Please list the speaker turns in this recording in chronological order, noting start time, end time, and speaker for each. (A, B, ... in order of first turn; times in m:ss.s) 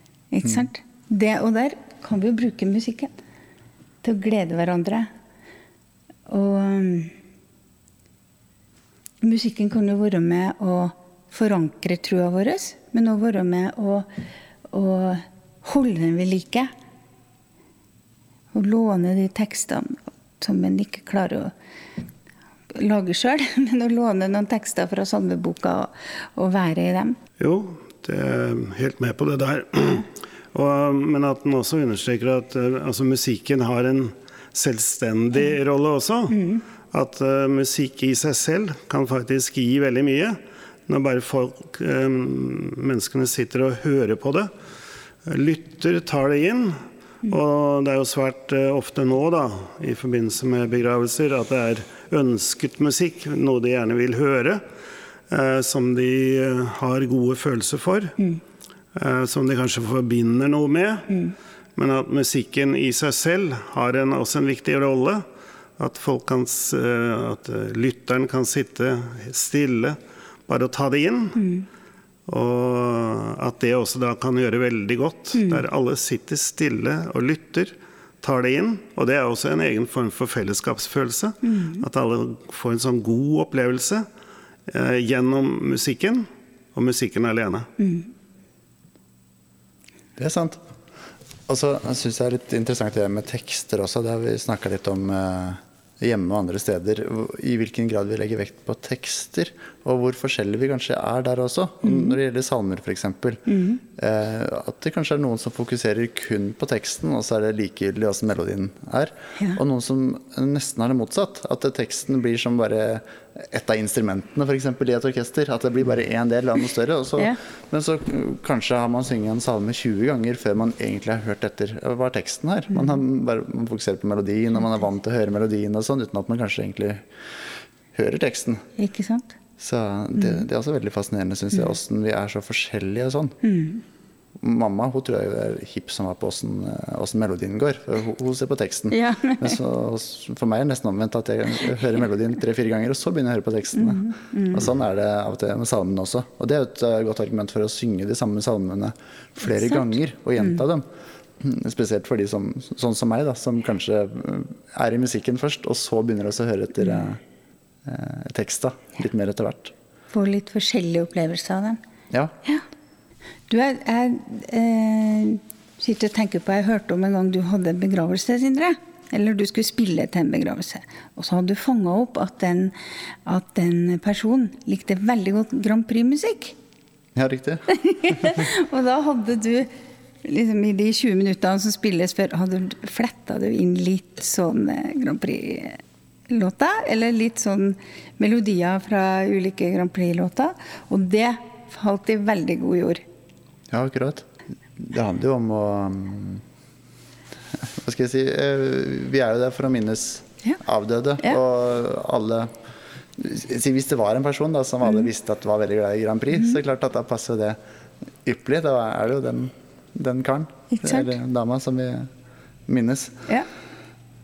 0:00.3-0:03.1 A
0:04.0-0:05.1 A
0:06.3-0:07.1 A
0:09.2-0:14.1 A
0:14.7-0:16.7 A
0:18.5-0:21.5 A
0:22.7-0:27.2 A
0:27.4-0:44.5 B
0:36.3-0:36.6 A
0:45.2-0:54.6 B
0:55.3-0:58.2 B
0:58.9-1:01.1 B
1:01.8-1:05.2 B
1:05.8-1:11.4 B
1:11.4-1:11.6 A
1:12.3-1:24.0 B
1:15.3-1:15.6 A
1:21.4-1:21.8 A
1:24.7-1:27.7 B
1:27.8-1:28.1 A
1:30.2-1:30.6 C
1:31.5-2:07.0 C
1:41.8-1:42.2 A
1:43.5-1:43.8 A
2:07.9-2:08.6 C
2:08.8-2:09.3 A
2:09.6-2:13.4 C
2:13.4-2:13.8 A
2:14.4-2:30.8 C
2:18.9-2:19.6 A
2:23.8-2:24.6 A
2:29.7-2:30.6 A
2:31.4-2:37.2 C
2:37.8-2:39.7 C
2:40.1-2:41.8 A
2:43.5-2:56.6 A
2:57.1-2:58.4 C
2:57.7-2:59.7 A
3:00.2-3:13.0 A
3:13.7-3:16.4 C
3:17.5-3:22.5 C
3:23.2-3:27.6 C
3:28.2-3:32.1 C
3:30.7-3:31.1 A
3:32.7-3:33.2 C